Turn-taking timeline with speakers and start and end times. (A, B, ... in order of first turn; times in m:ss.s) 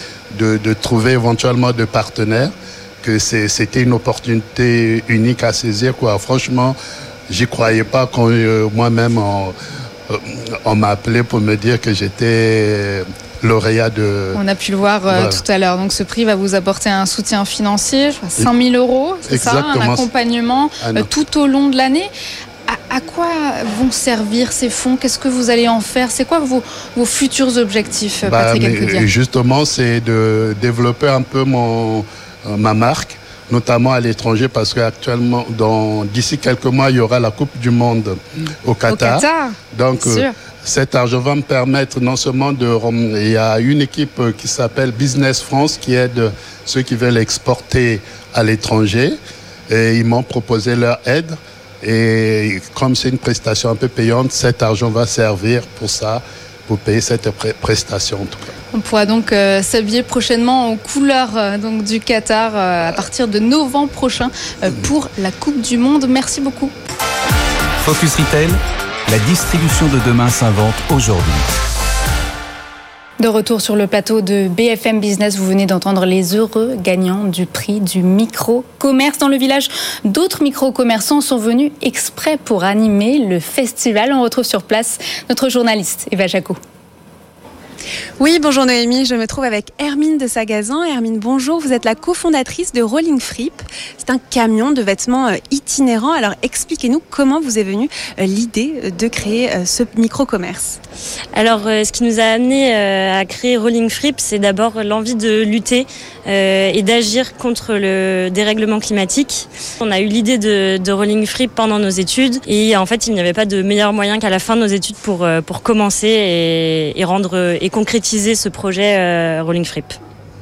0:00.3-0:06.8 A
0:07.3-0:09.5 A
0:10.1-0:14.4 A
0:14.3-0:22.1 B
0:15.1-0:15.4 A
0:19.3-0:20.1 A
0:20.8-0:21.1 A
0:22.7-0:29.1 B
0:28.2-0:49.2 A
0:38.9-0:40.3 B
0:49.7-0:58.5 A
0:58.7-1:06.7 B
1:07.8-1:11.5 C
1:13.2-1:26.6 D
1:28.2-1:40.8 E
1:41.3-2:00.0 F